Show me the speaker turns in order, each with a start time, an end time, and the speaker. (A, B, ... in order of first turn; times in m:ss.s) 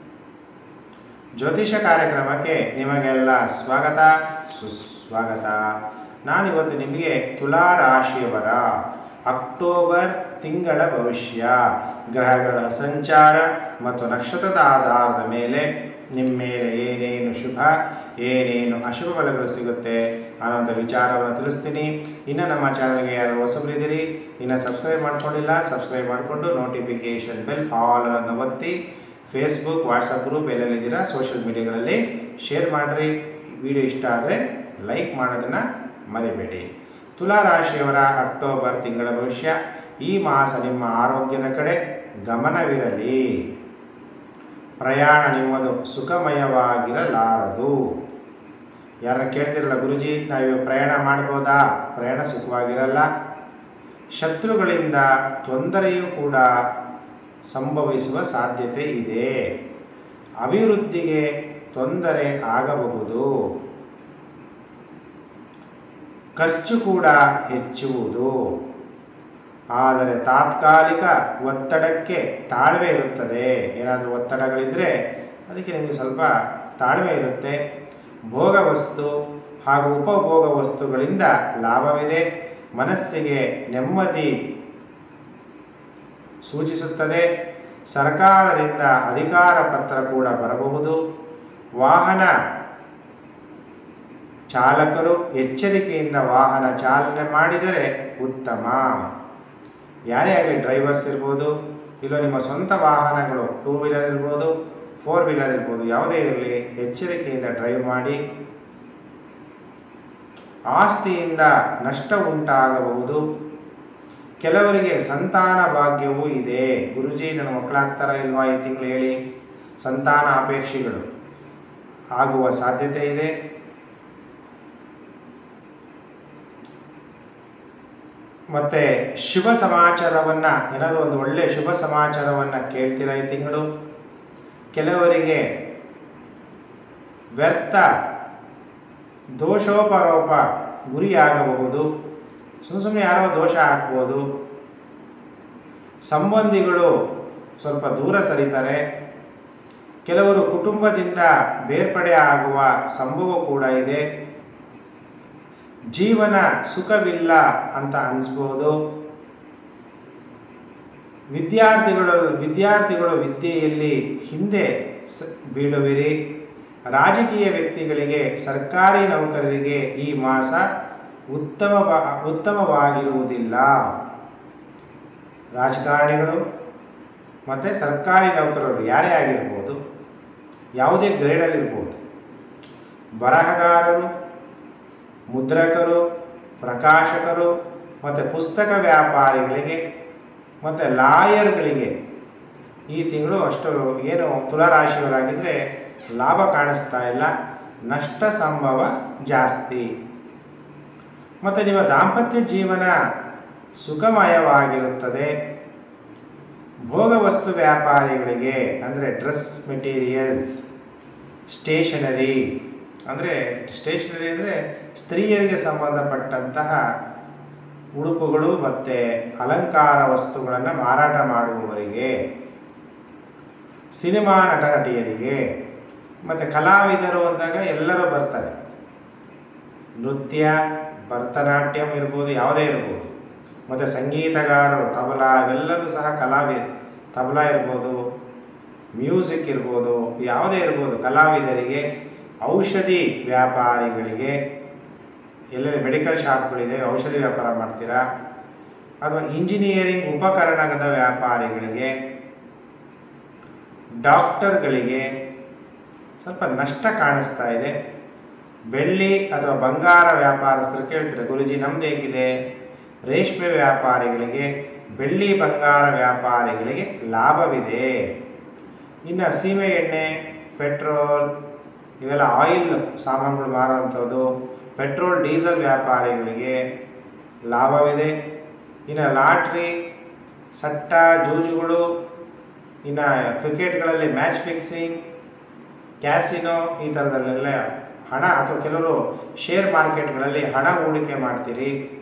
0:01.4-0:05.7 A
0:06.2-0:08.6 A
0:09.3-0:28.8 A
0:29.3-0:43.3 A
0:44.8-0:47.8 A
0:49.0-0:53.1 A
0:54.2-0:56.5 A
0:57.5-0:59.3 A
1:00.4-1:03.3 A
1:06.4-1:08.3 A
1:09.8-1:14.9 A
1:15.5-1:17.6 A
1:18.3-1:19.1 A
1:19.7-1:22.2 A
1:22.8-1:24.3 A
1:26.4-1:27.2 A
1:27.9-1:31.0 A
1:31.8-1:32.3 A
1:34.5-1:39.0 A
1:40.1-1:48.2 A
1:50.7-1:53.2 A
1:54.4-1:59.2 A
1:59.8-2:01.0 A
2:02.2-2:03.3 A
2:08.5-2:13.7 A
2:14.7-2:15.5 A
2:17.4-2:17.9 A
2:19.4-2:21.9 A
2:22.6-2:24.2 A
2:26.1-2:26.9 A
2:27.6-2:28.8 A
2:30.0-2:34.0 A
2:35.9-2:38.7 A
2:41.3-2:46.1 A
2:47.0-2:50.6 A
2:51.3-2:53.8 A
2:55.6-2:56.4 A
2:57.5-2:59.8 A
3:00.8-3:02.0 A
3:03.2-3:04.1 A
3:05.3-3:06.0 A
3:06.6-3:07.5 A
3:08.0-3:09.8 A
3:10.6-3:11.9 A
3:12.9-3:15.6 A
3:16.2-3:17.3 A
3:17.9-3:19.9 A
3:21.4-3:22.9 A
3:23.8-3:25.3 A
3:26.9-3:30.6 A
3:31.5-3:32.5 A
3:33.1-3:36.8 A
3:38.0-3:42.1 A
3:44.0-3:45.4 A
3:46.2-3:48.6 A
3:50.0-3:53.1 A
3:53.7-3:58.0 A
3:59.0-4:01.8 A
4:02.4-4:04.4 A
4:05.5-4:08.0 A
4:09.0-4:11.9 A
4:14.0-4:15.1 A
4:16.2-4:17.7 A
4:18.7-4:22.3 A
4:23.1-4:28.0 A
4:29.1-4:31.3 A
4:32.0-4:36.6 A
4:37.5-4:38.1 A
4:38.9-4:39.7 A
4:40.6-4:41.8 A
4:42.8-4:45.0 A
4:46.0-4:51.7 A